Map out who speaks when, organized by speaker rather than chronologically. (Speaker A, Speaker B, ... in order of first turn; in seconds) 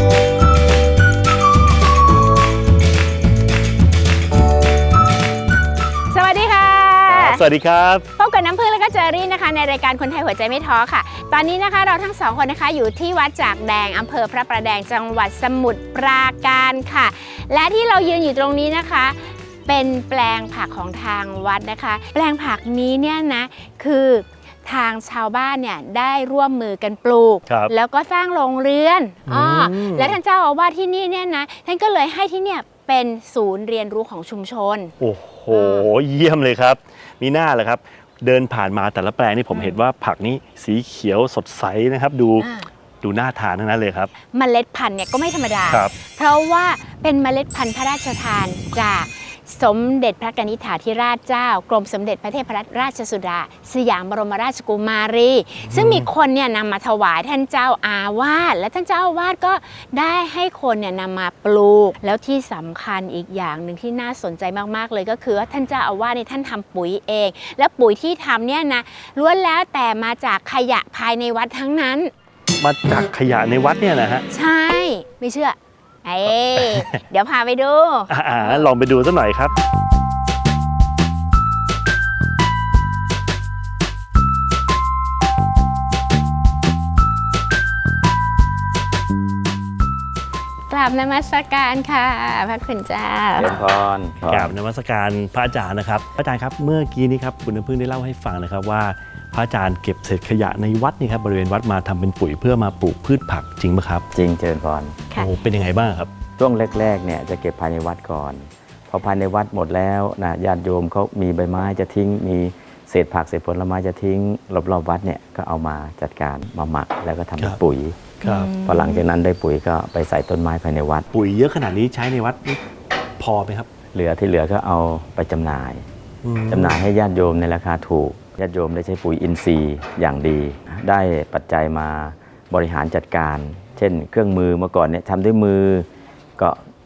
Speaker A: 6.1-7.4, 8.2-34.9, 35.5-35.9, 42.4-42.7, 44.2-72.1, 74.3-78.6, 90.7-93.5, 118.2-119.0
Speaker B: 7.1-8.1, 29.3-30.2, 35.0-42.5, 43.0-44.1, 55.6-56.1, 72.6-74.2, 76.5-77.0, 78.1-79.5, 94.2-104.0, 105.1-106.1, 118.2-118.5, 121.1-122.6, 123.2-123.7, 126.2-126.8
Speaker C: 93.3-94.5, 104.1-105.0, 106.4-121.1, 123.9-125.8, 126.5-135.9